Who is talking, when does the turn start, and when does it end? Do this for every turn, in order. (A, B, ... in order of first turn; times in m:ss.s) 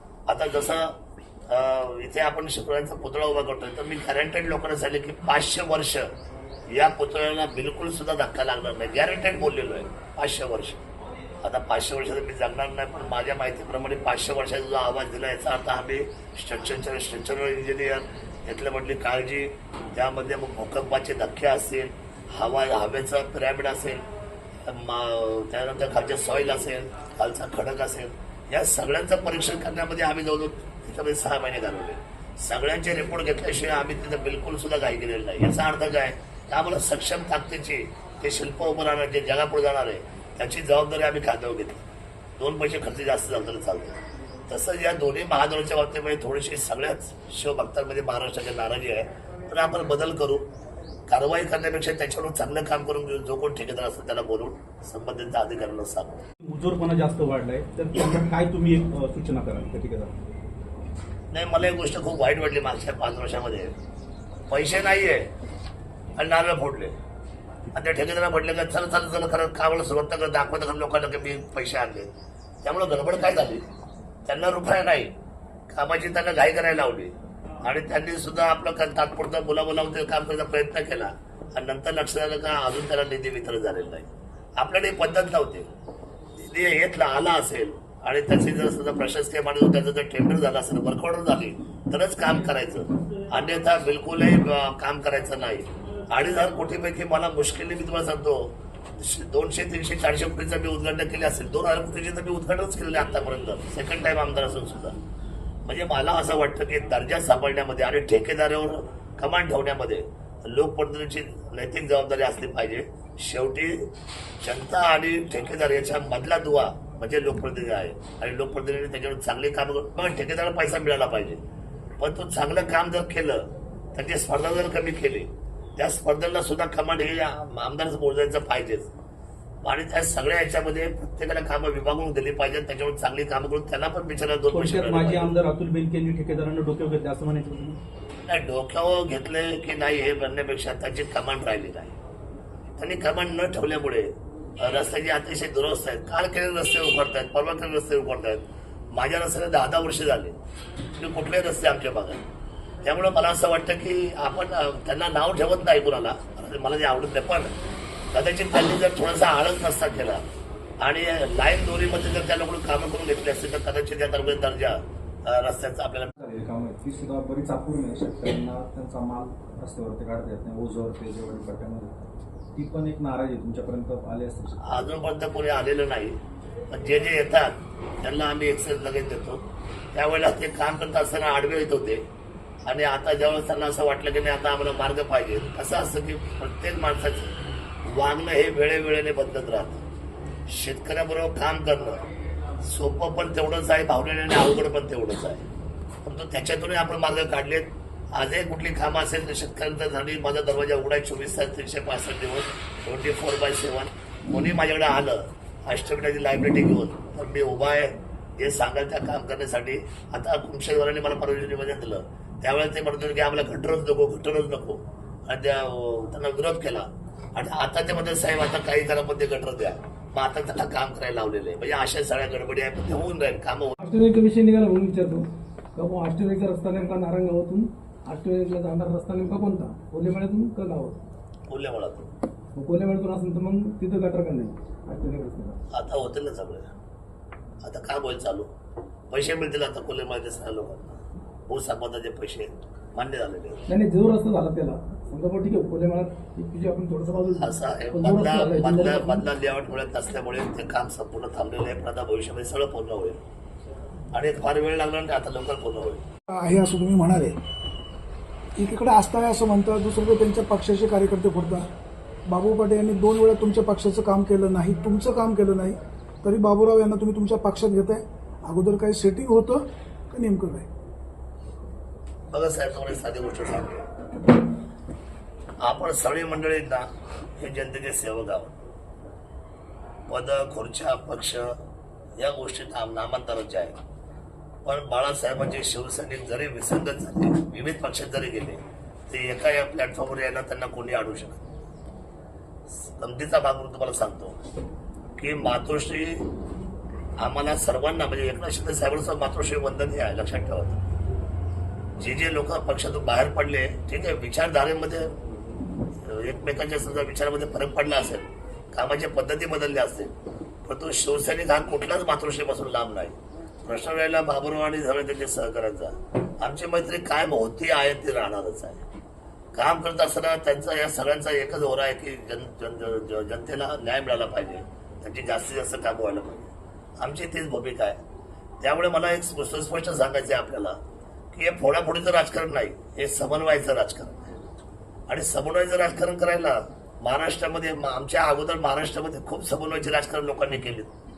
0:00.3-0:01.0 A
0:01.5-0:06.1 A
0:06.7-0:10.8 A
0:11.4-0:24.0 A
0:24.6-0:41.8 A
0:42.4-0:50.4 A
0:51.1-0:56.2 A
0:56.4-1:00.1 B
1:01.3-1:03.7 A
1:04.5-1:05.3 A
1:06.2-1:06.9 A
1:07.7-1:12.1 A
1:12.6-1:13.6 A
1:14.2-1:15.1 A
1:15.7-1:25.7 A
1:26.4-1:45.0 A
1:45.6-1:53.9 A
1:54.4-2:01.4 A
2:02.0-2:08.9 A
2:09.6-2:15.3 A
2:14.5-2:17.8 B
2:18.3-2:21.9 A
2:22.8-2:28.4 A
2:28.9-2:30.4 A
2:31.0-2:32.2 A
2:32.8-2:37.5 A
2:38.1-2:40.2 A
2:40.8-2:46.1 A
2:46.2-2:52.0 C
2:52.6-2:54.8 C
2:54.6-2:56.2 A
2:56.7-2:59.4 A
2:59.9-3:02.0 A
3:02.6-3:07.3 A
3:07.8-3:09.8 A
3:10.5-3:12.0 A
3:12.6-3:15.4 A
3:16.0-3:43.8 A
3:43.8-3:45.2 D
3:45.8-3:51.0 D
3:51.5-3:52.1 A
3:52.6-3:55.6 D
3:55.7-3:56.7 A
3:57.6-3:58.5 A
3:59.1-4:03.6 A
4:03.7-4:09.2 D
4:07.4-4:13.2 A
4:14.1-4:16.0 A
4:16.3-4:17.4 E
4:18.6-4:21.7 E
4:22.3-4:30.7 E
4:32.3-4:33.9 A
4:35.6-4:38.6 A
4:40.1-4:41.5 A
4:42.2-4:43.7 A
4:44.6-4:51.5 A
4:52.7-4:54.4 A
4:55.2-4:56.2 A
4:57.2-5:00.8 A
5:02.0-5:05.1 A
5:06.0-5:10.1 A
5:10.6-5:18.8 A
5:19.5-5:28.0 A
5:28.6-5:30.8 A
5:31.3-5:34.3 A
5:35.1-5:40.9 A